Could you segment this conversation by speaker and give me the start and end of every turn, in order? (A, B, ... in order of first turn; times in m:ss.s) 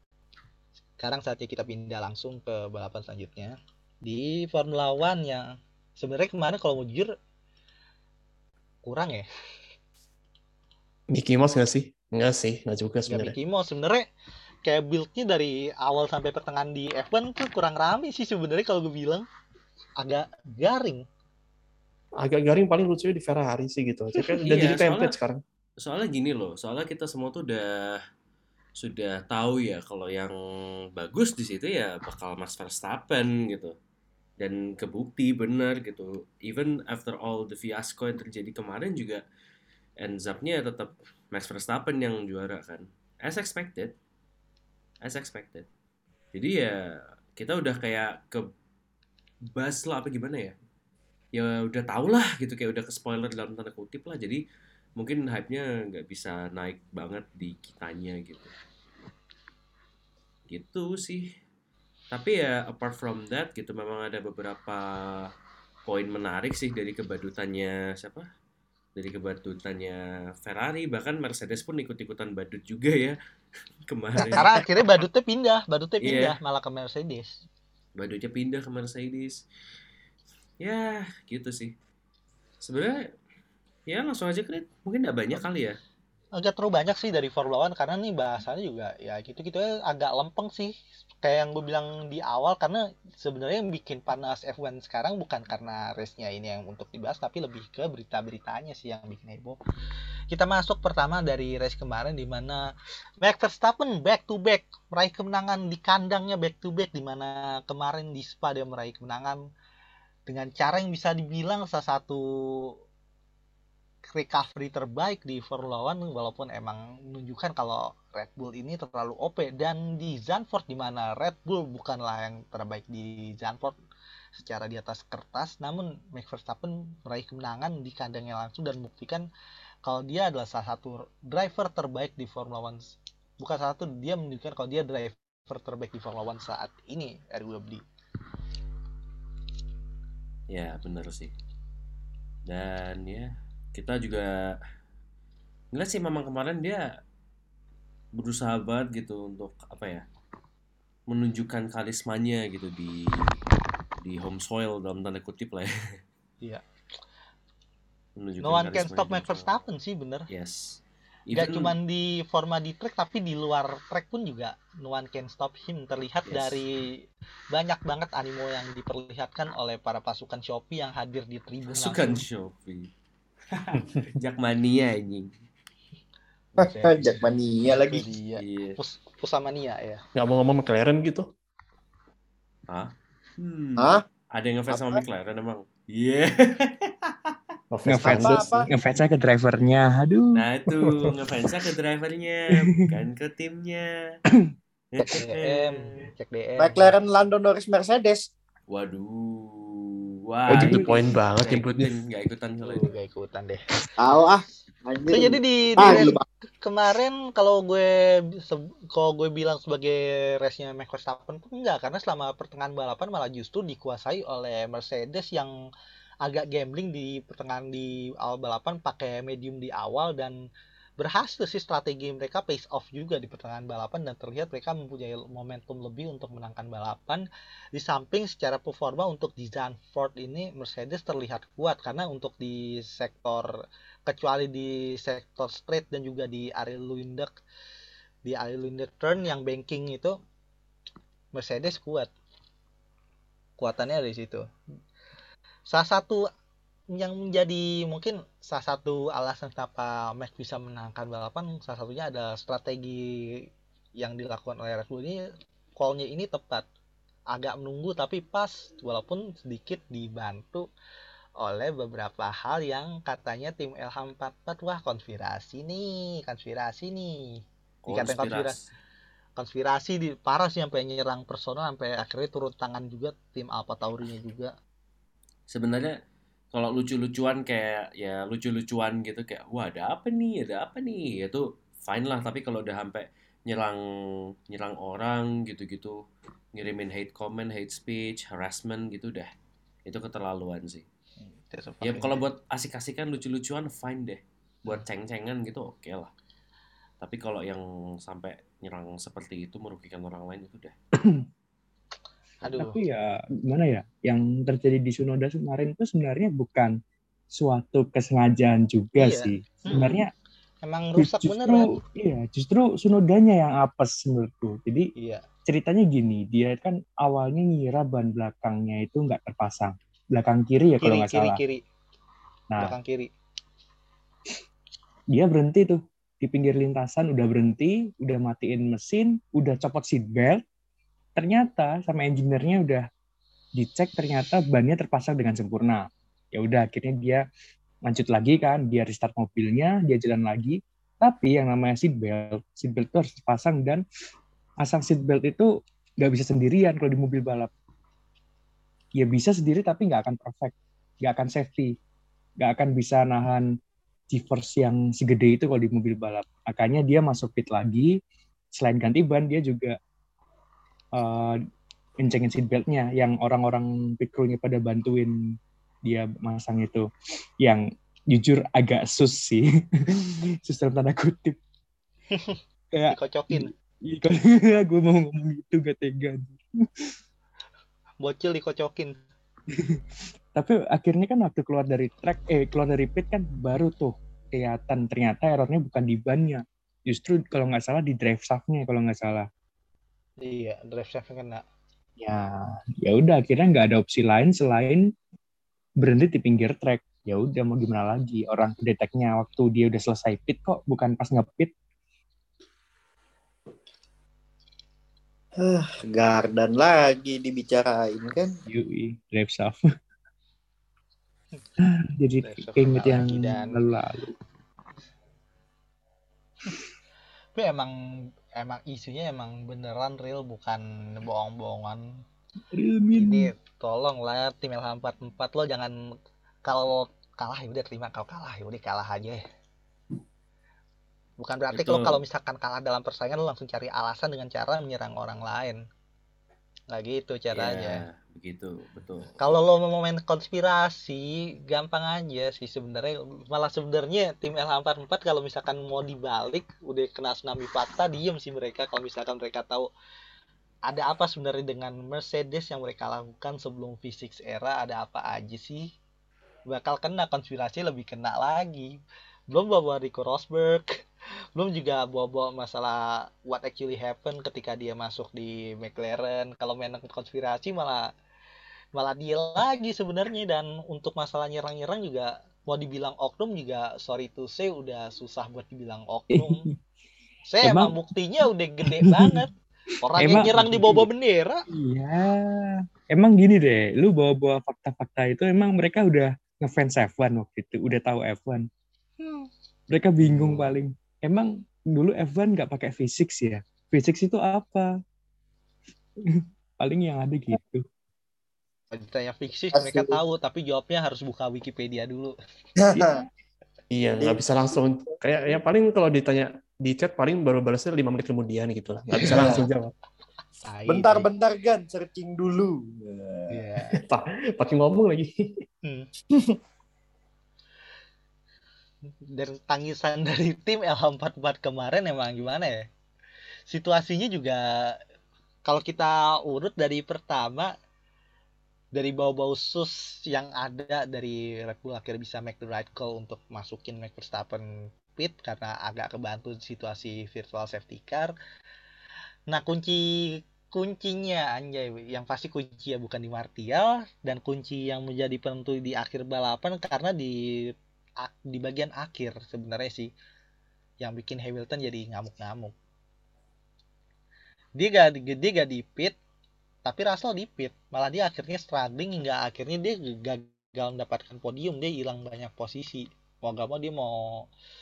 0:01.0-0:07.1 A
0:08.8-0:09.3 A
0:11.1-0:13.3 B
0:13.1-0:14.1 A
0:14.6-0:19.3 A
0:20.0-0:21.0 A
0:22.2-0:25.4 B
0:24.4-0:25.1 C
0:25.8-0:28.0 C
0:28.8-0:33.7 C
0:34.4-0:39.2 C
0:40.0-0:43.9 C
0:45.0-0:45.7 C
0:46.3-0:48.4 C
0:49.5-0:50.6 C
0:51.3-0:54.4 C
0:55.0-0:58.5 C
1:00.5-1:01.3 C
1:02.1-1:05.3 C
1:05.9-1:08.3 C
1:09.0-1:13.2 C
1:13.9-1:14.5 C
1:14.2-1:17.4 A
1:16.0-1:16.4 C
1:18.0-1:19.4 C
1:20.6-1:21.7 C
1:22.6-1:23.1 C
1:23.9-1:25.8 C
1:26.3-1:39.6 A
1:40.3-1:42.7 A
1:43.2-1:49.4 A
1:50.3-1:52.7 A
1:54.1-2:03.8 A
2:04.3-2:09.3 A
2:09.8-2:17.8 A
2:20.5-2:21.3 C
2:22.5-2:24.6 C
2:25.7-2:26.8 C
2:28.2-2:30.0 C
2:31.1-2:33.4 C
2:34.0-2:35.7 C
2:38.2-2:39.6 C
2:38.4-2:40.3 A
2:40.3-2:41.7 C
2:41.3-2:47.0 A
2:46.3-2:46.6 C
2:47.5-2:52.2 A
2:51.7-2:52.9 C
2:53.7-2:55.3 C
2:56.6-3:00.0 A
2:56.6-2:58.1 D
2:58.4-2:58.8 C
3:00.1-3:01.3 B
3:02.7-3:07.3 C
3:03.8-3:04.0 D
3:04.7-3:05.0 D
3:07.7-3:08.7 B
3:07.8-3:11.6 E
3:07.9-3:08.7 D
3:10.3-3:14.2 C
3:12.7-3:13.0 E
3:14.9-3:16.1 C
3:15.1-3:16.9 A
3:16.6-3:18.3 D
3:18.7-3:22.9 C
3:20.5-3:21.1 E
3:20.5-3:21.9 B
3:22.6-3:23.6 A
3:24.0-3:26.2 D
3:25.1-3:35.5 A
3:36.2-3:40.4 A
3:41.0-3:53.5 A
3:54.1-3:57.3 A
3:58.2-4:00.2 A
4:01.3-4:02.1 A
4:03.6-4:04.4 A
4:05.7-4:06.2 A
4:06.9-4:13.4 A
4:14.0-4:15.2 A
4:15.8-4:16.6 A
4:17.3-4:20.7 A
4:21.4-4:28.6 A
4:27.8-4:28.6 C
4:29.4-4:34.5 A
4:35.5-4:35.9 C
4:36.5-4:43.8 C
4:44.5-4:46.0 C
4:46.5-4:49.3 C
4:49.8-4:50.8 C
4:51.2-4:52.2 A
4:51.8-4:56.1 C
4:57.0-5:00.7 C
5:01.0-5:01.2 E
5:02.4-5:02.8 A
5:02.5-5:06.8 E
5:07.3-5:10.1 E
5:09.0-5:10.0 A
5:10.6-5:11.8 A
5:11.0-5:14.9 E
5:15.0-5:15.2 A
5:15.5-5:21.4 E
5:20.8-5:21.6 A
5:22.5-5:22.8 E
5:22.6-5:23.1 A
5:25.1-5:30.4 E
5:31.2-5:32.9 E
5:33.6-5:37.2 E
5:37.8-5:43.8 E
5:44.6-5:47.5 E
5:49.0-5:51.8 E
5:52.4-5:53.5 E
5:54.1-5:58.0 E
5:58.5-5:59.8 E
6:01.0-6:01.4 E
6:02.0-6:05.1 E
6:05.8-6:06.9 E
6:07.4-6:09.4 E
6:10.0-6:11.4 E
6:12.1-6:12.4 A
6:12.7-6:16.4 E
6:12.9-6:13.5 A
6:18.0-6:19.0 A
6:19.5-6:19.8 E
6:20.3-6:29.3 E
6:30.2-6:31.4 A
6:32.0-6:34.9 E
6:35.8-6:41.5 E
6:45.4-6:48.3 D
6:48.5-6:49.6 E
6:51.6-6:54.1 E
6:52.2-6:53.6 A
6:57.3-7:02.0 A
7:02.5-7:03.3 E
7:02.9-7:05.7 A
7:06.4-7:09.2 A
7:11.2-7:15.6 A
7:11.5-7:12.0 C
7:16.7-7:17.8 A
7:17.3-7:19.2 C
7:19.2-7:29.7 A
7:30.7-7:35.7 A
7:36.5-7:38.7 A
7:39.3-7:40.7 A
7:41.4-7:47.9 A
7:48.7-7:56.4 A
7:56.1-7:56.5 E
7:57.2-8:01.4 A
7:57.4-7:57.7 E
7:58.6-7:59.2 E
8:00.0-8:00.9 E
8:01.5-8:08.5 E
8:09.0-8:09.3 A
8:09.7-8:14.7 E
8:16.1-8:17.6 E
8:18.7-8:22.1 A
8:19.5-8:20.0 D
8:22.6-8:23.0 D
8:23.7-8:29.7 B
8:24.0-8:24.9 D
8:29.0-8:29.5 D
8:30.4-8:31.1 A
8:30.7-8:33.3 D
8:33.3-8:33.8 A
8:33.8-8:35.4 B
8:35.6-8:35.9 A
8:39.1-8:42.7 A
8:43.5-8:44.8 A
8:45.4-8:47.5 A
8:48.7-8:58.1 A
8:59.3-9:09.9 A
9:10.8-9:12.5 A
9:14.6-9:16.0 A
9:16.6-9:24.2 A